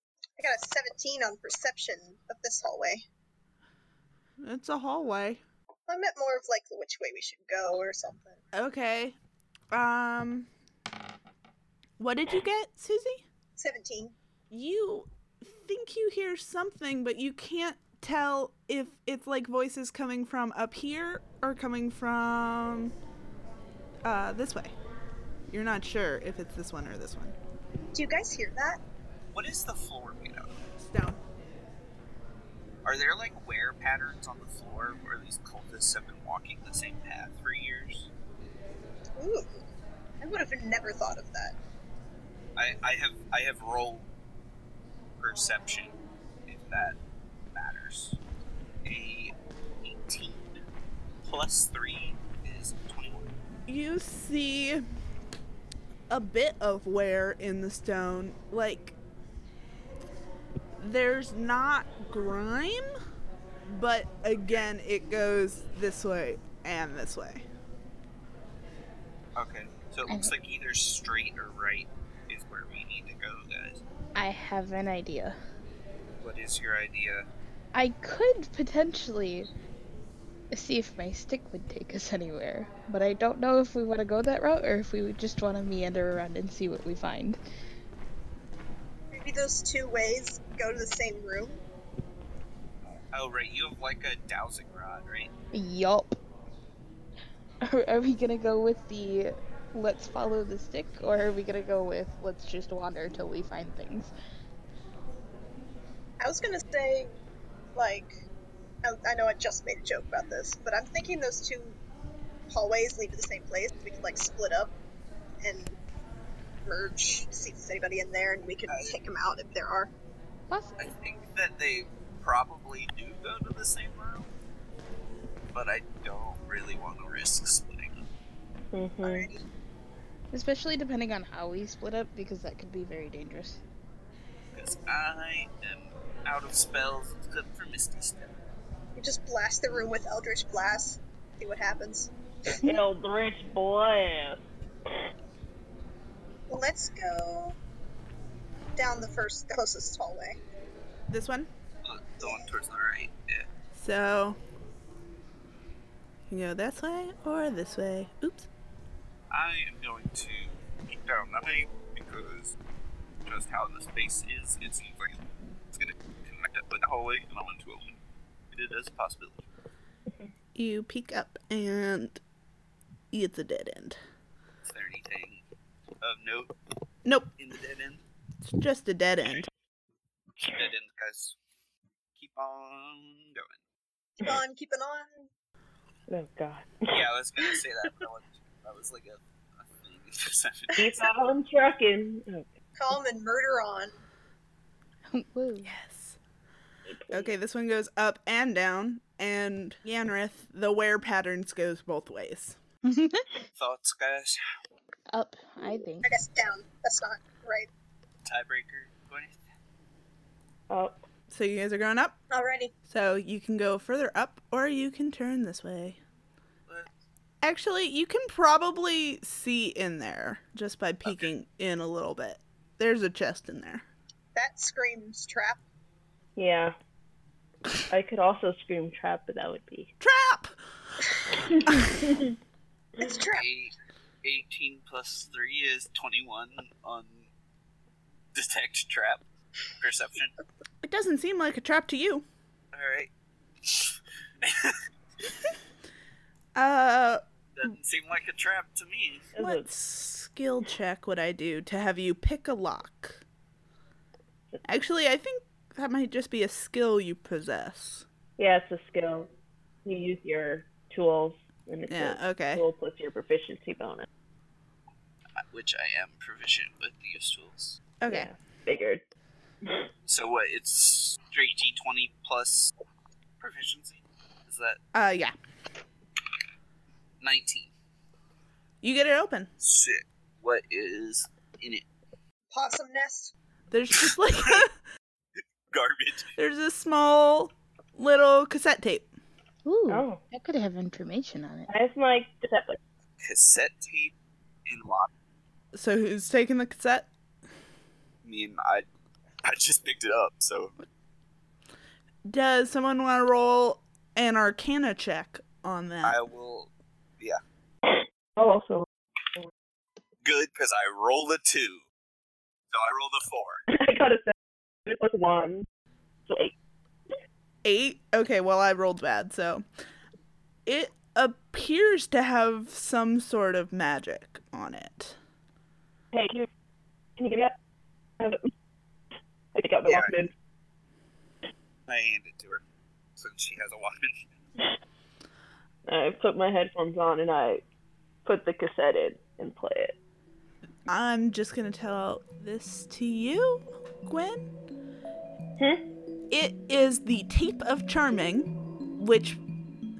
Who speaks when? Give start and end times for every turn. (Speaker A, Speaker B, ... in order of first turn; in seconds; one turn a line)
Speaker A: 0.4-3.0
Speaker B: 4.4-5.4
Speaker A: 5.9-8.4
Speaker B: 8.5-9.2
Speaker B: 9.7-10.5
Speaker B: 12.0-13.2
Speaker A: 13.6-14.2
Speaker B: 14.5-22.9
Speaker B: 24.0-24.7
Speaker B: 25.5-27.4
Speaker A: 27.9-28.8
Speaker C: 29.3-30.6
Speaker B: 30.8-31.2
Speaker C: 32.9-38.1
Speaker A: 39.2-39.6
Speaker A: 40.2-41.6
Speaker C: 42.6-44.1
Speaker C: 45.2-47.0
Speaker C: 47.5-48.2
Speaker C: 48.8-50.6
Speaker C: 51.2-53.3
Speaker B: 53.7-54.8
Speaker B: 56.1-59.0
Speaker B: 60.8-62.9
Speaker B: 63.7-67.5
Speaker C: 69.3-73.8
Speaker D: 74.2-75.4
Speaker C: 76.2-77.3
Speaker D: 77.7-79.5
Speaker D: 80.5-87.4
Speaker A: 89.1-91.6
Speaker C: 93.1-95.3
Speaker D: 95.5-96.2
Speaker D: 97.6-104.1
Speaker A: 106.2-107.2
Speaker A: 107.8-108.2
Speaker A: 108.8-111.8
Speaker A: 112.5-114.8
Speaker A: 115.4-115.8
Speaker A: 116.7-119.9
Speaker C: 118.7-119.0
Speaker D: 120.5-120.8
Speaker C: 120.8-124.3
Speaker C: 125.5-128.1
Speaker E: 128.7-129.3
Speaker A: 129.0-129.4
Speaker D: 130.3-133.6
Speaker C: 134.5-138.3
Speaker A: 139.0-142.1
Speaker E: 142.6-144.4
Speaker A: 146.5-147.6
Speaker A: 148.8-150.4
Speaker B: 151.1-151.5
Speaker C: 151.8-153.5
Speaker A: 152.2-152.5
Speaker B: 153.7-154.4
Speaker B: 156.3-158.5
Speaker C: 159.3-162.6
Speaker C: 163.2-168.0
Speaker C: 168.5-169.5
Speaker B: 170.6-172.2
Speaker B: 173.1-174.0
Speaker C: 174.6-175.4
Speaker C: 176.0-176.5
Speaker B: 177.1-177.3
Speaker C: 177.4-178.0
Speaker B: 178.4-179.5
Speaker C: 180.4-181.4
Speaker C: 182.2-183.6
Speaker A: 184.2-185.3
Speaker E: 186.1-187.0
Speaker C: 186.9-191.0
Speaker E: 190.8-192.5
Speaker A: 192.8-193.9
Speaker D: 195.1-195.7
Speaker B: 195.6-196.2
Speaker E: 196.9-197.3
Speaker B: 197.1-202.6
Speaker D: 202.9-203.2
Speaker C: 203.6-204.4
Speaker D: 205.1-206.1
Speaker A: 206.0-207.7
Speaker C: 208.2-209.4
Speaker E: 210.7-211.0
Speaker B: 211.3-212.2
Speaker A: 212.3-212.7
Speaker B: 212.9-216.0
Speaker B: 217.4-223.8
Speaker A: 224.3-225.6
Speaker E: 226.4-226.8
Speaker E: 227.9-229.9
Speaker B: 230.0-230.5
Speaker E: 231.5-232.2
Speaker B: 231.7-232.0
Speaker A: 233.0-233.5
Speaker C: 233.3-237.3
Speaker C: 238.3-239.2
Speaker C: 239.8-240.3
Speaker B: 240.8-242.3
Speaker C: 242.7-243.1
Speaker C: 243.6-244.8
Speaker B: 246.6-247.2
Speaker C: 247.6-249.3
Speaker E: 249.3-249.7
Speaker B: 249.4-253.2
Speaker B: 254.7-258.1
Speaker E: 258.4-259.3
Speaker E: 259.9-264.1
Speaker B: 261.9-262.6
Speaker C: 265.4-267.8
Speaker B: 268.0-268.3
Speaker E: 268.1-269.0
Speaker C: 270.1-272.7
Speaker C: 273.4-274.8
Speaker B: 274.9-275.4
Speaker C: 277.2-277.7
Speaker B: 278.8-279.5
Speaker C: 279.6-281.9
Speaker A: 282.5-283.3
Speaker B: 283.7-284.8
Speaker C: 284.0-284.6
Speaker C: 285.7-286.3
Speaker B: 286.4-289.1
Speaker D: 289.6-291.7
Speaker E: 289.9-290.2
Speaker E: 291.7-292.8
Speaker C: 293.2-294.1
Speaker C: 294.7-295.1
Speaker B: 295.7-297.1
Speaker C: 298.2-298.9
Speaker C: 299.4-300.7
Speaker B: 302.3-306.2
Speaker C: 306.0-307.4
Speaker E: 307.9-309.5
Speaker C: 310.2-311.9
Speaker C: 312.7-313.6
Speaker E: 313.7-314.3
Speaker E: 314.9-315.7
Speaker E: 316.3-316.5
Speaker B: 317.6-319.6
Speaker B: 320.7-325.2
Speaker E: 326.1-326.5
Speaker E: 327.2-327.6
Speaker E: 328.2-328.5
Speaker E: 329.5-330.3
Speaker C: 329.9-330.1
Speaker C: 331.9-332.6
Speaker C: 333.2-334.2
Speaker E: 335.9-337.6
Speaker E: 338.2-340.0
Speaker B: 340.9-344.5
Speaker B: 346.3-349.4